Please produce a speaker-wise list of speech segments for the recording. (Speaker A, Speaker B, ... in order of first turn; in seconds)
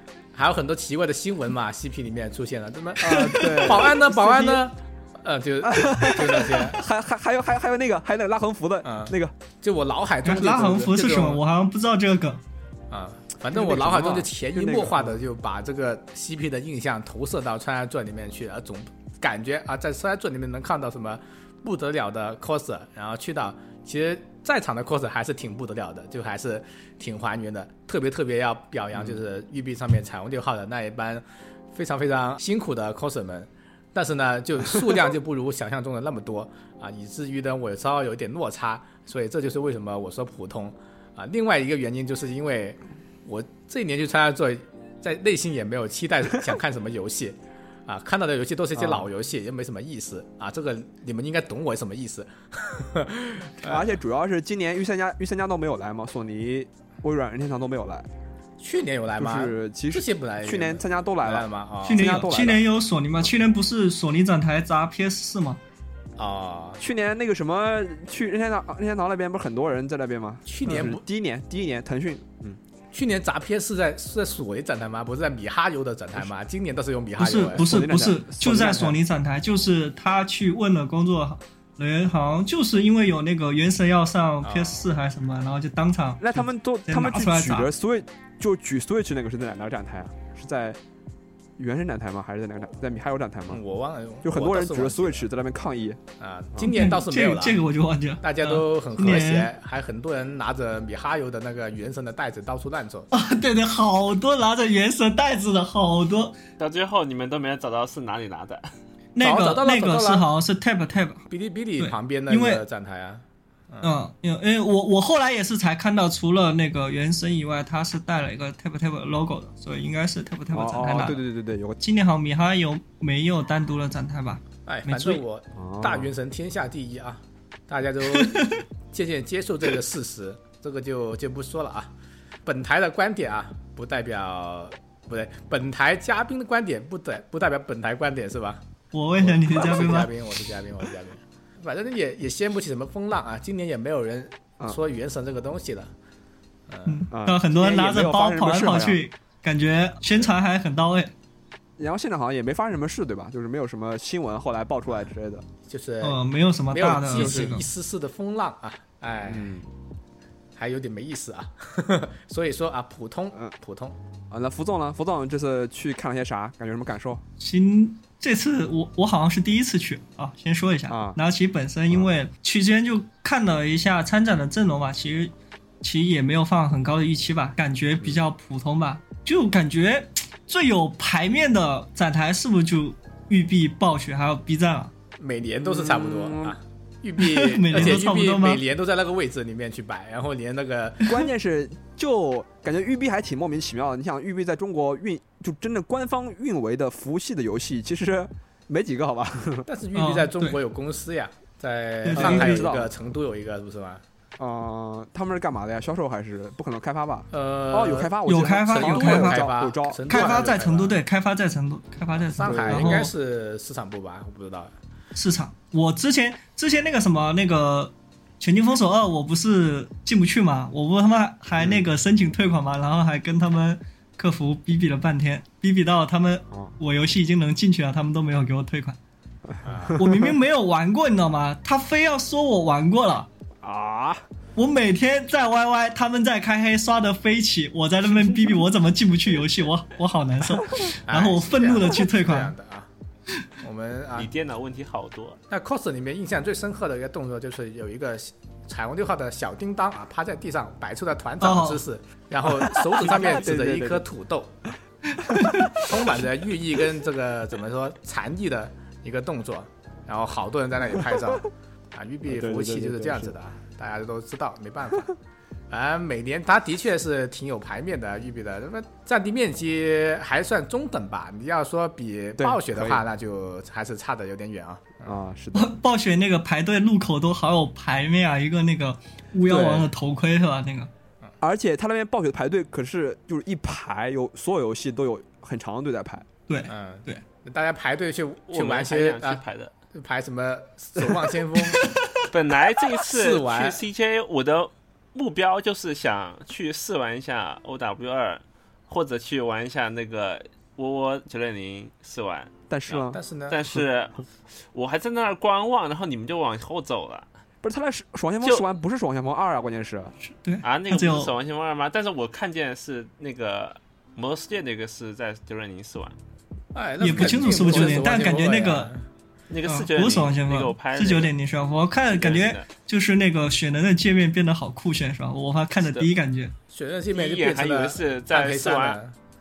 Speaker A: 0.3-6.8, 8.8-11.4, 12.9-54.0, 58.6-62.4, 66.2-66.8, 70.5-71.0, 72.9-77.7, 84.4-84.9, 93.5-95.3, 96.2-97.6, 98.2-103.1, 109.2-110.3, 111.3-114.0, 124.7-131.9, 132.4-138.6, 139.2-145.9, 146.7-147.1, 155.7-156.2, 156.7-159.6, 160.6-164.0, 185.2-191.2, 199.7-204.0, 207.3-211.0, 212.2-214.7, 229.6-230.0, 241.1-242.9, 243.6-244.3, 245.5-254.6, 255.8-265.2, 265.7-275.2, 286.7-289.4, 289.9-291.9, 293.0-293.9, 303.1-303.6, 316.7-319.0, 326.7-329.1
Speaker B: 3.0-4.6, 5.6-9.3, 13.5-15.2, 48.8-49.1, 53.6-58.1, 59.2-62.7, 66.8-72.6, 77.5-79.0, 86.2-90.8, 91.6-93.6, 94.2-96.0, 120.5-121.8, 125.6-126.1, 147.1-149.0, 151.8-155.5, 157.1-157.6, 159.2-159.7, 164.3-167.2, 170.9-171.2, 185.6-186.6, 187.7-188.0, 191.1-199.7, 202.1-202.9, 204.4-210.5, 212.4-213.1, 221.6-221.9, 229.8-230.3, 233.6-234.2, 252.9-254.1, 262.3-263.4, 272.4-273.0, 275.1-275.7, 279.5-279.9, 281.4-286.3, 302.7-303.2, 307.6-310.1
Speaker C: 3.1-3.7, 10.2-12.4, 61.9-65.6, 77.2-87.7, 96.6-99.5, 103.1-106.3, 109.2-111.3, 111.8-112.6, 113.8-121.2, 121.8-125.2, 128.1-128.6, 138.9-140.1, 146.8-151.1, 156.0-157.7, 167.4-184.9, 187.2-188.6, 199.9-200.6, 202.0-202.7, 208.3-209.5, 210.1-213.1, 215.2-229.0, 230.0-233.3, 234.6-242.5, 251.4-251.8, 255.3-255.8, 275.6-280.9, 286.5-287.2, 291.8-292.2, 310.2-311.3, 317.0-318.9, 319.7-326.5
Speaker D: 106.6-108.7, 244.2-245.4, 288.5-289.7, 292.3-307.3, 308.4-308.7, 310.6-316.1, 319.5-321.3, 322.1-322.7, 325.8-326.1, 327.1-329.0